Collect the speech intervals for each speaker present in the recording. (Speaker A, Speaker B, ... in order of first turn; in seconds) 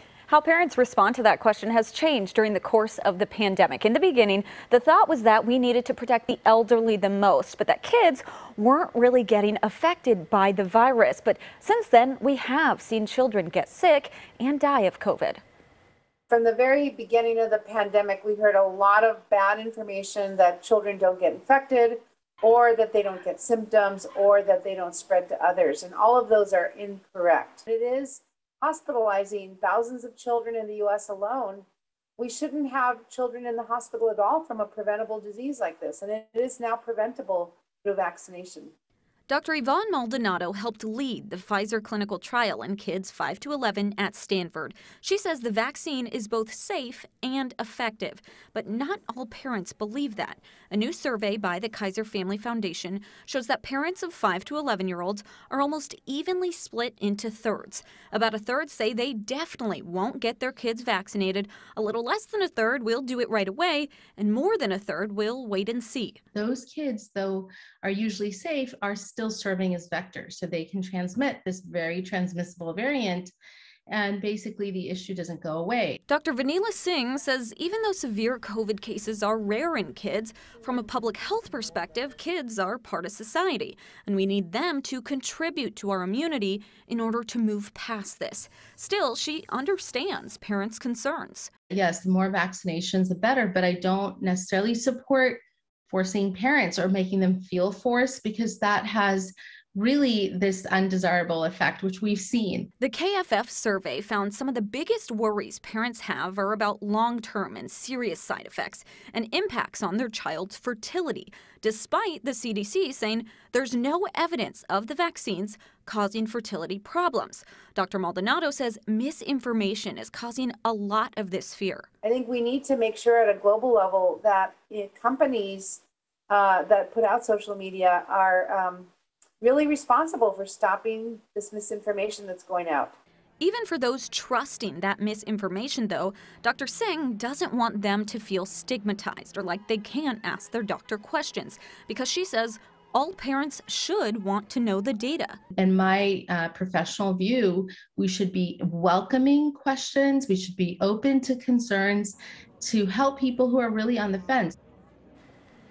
Speaker A: 0.3-15.4, 39.3-66.2, 76.1-91.5, 102.8-121.9, 133.4-145.4
Speaker B: 16.3-31.6, 32.2-38.7, 122.0-132.9
Speaker C: 66.3-73.3, 73.9-76.0, 91.7-102.7, 145.6-154.6